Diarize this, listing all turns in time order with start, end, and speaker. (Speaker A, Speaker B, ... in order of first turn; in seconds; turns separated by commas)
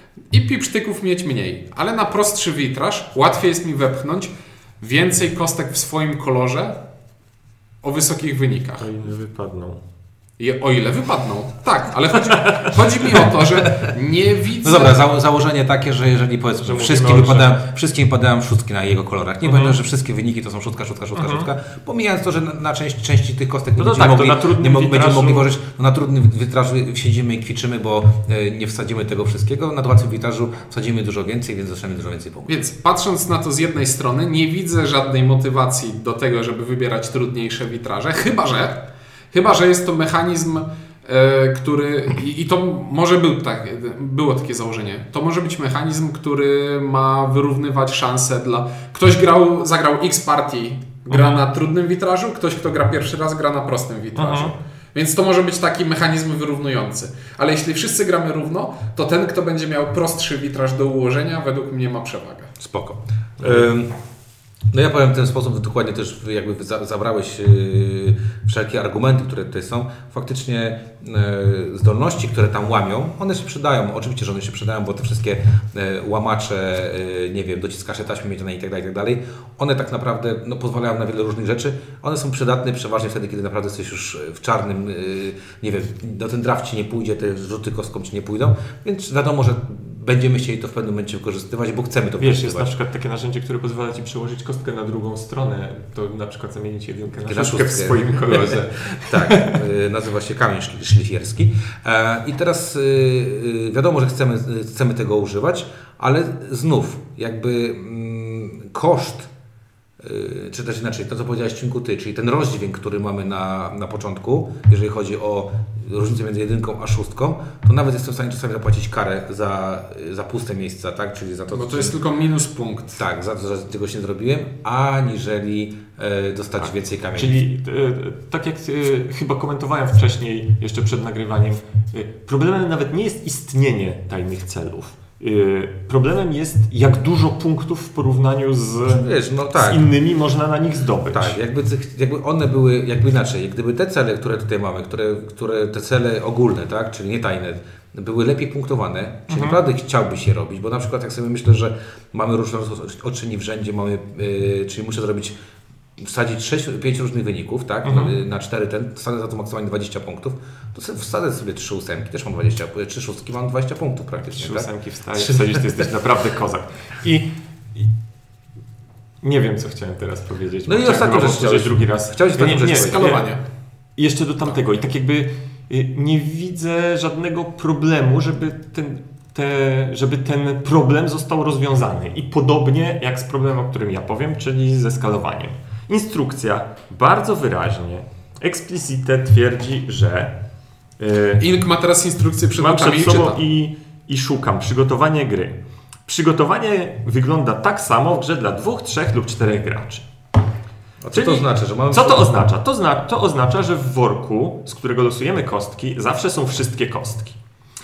Speaker A: 0.3-6.8, Speaker A: 7.8-8.9, Speaker B: 8.8-9.8, Speaker A: 10.4-15.0, Speaker B: 12.4-12.7, Speaker C: 14.6-32.5, Speaker B: 16.6-17.6, Speaker B: 19.4-19.8, Speaker B: 21.2-21.5, Speaker B: 23.8-25.5, Speaker A: 32.5-62.5, Speaker B: 51.1-51.4, Speaker B: 54.2-54.5, Speaker C: 62.6-63.9, Speaker B: 63.4-63.7, Speaker C: 64.7-92.7, Speaker B: 92.2-99.6, Speaker C: 97.3-109.3, Speaker C: 110.0-122.0, Speaker A: 121.5-123.0, Speaker C: 123.0-127.4, Speaker B: 126.6-139.1, Speaker C: 138.9-139.9, Speaker B: 139.6-141.4, Speaker C: 141.1-155.3, Speaker B: 149.3-149.6, Speaker C: 156.0-165.7, Speaker B: 157.8-158.1, Speaker B: 164.2-167.9, Speaker B: 169.2-173.3, Speaker C: 170.7-173.2, Speaker A: 172.6-173.4, Speaker B: 174.0-190.4, Speaker B: 191.0-191.4, Speaker A: 191.4-193.4, Speaker B: 192.6-200.1, Speaker C: 201.0-202.3, Speaker B: 201.1-207.4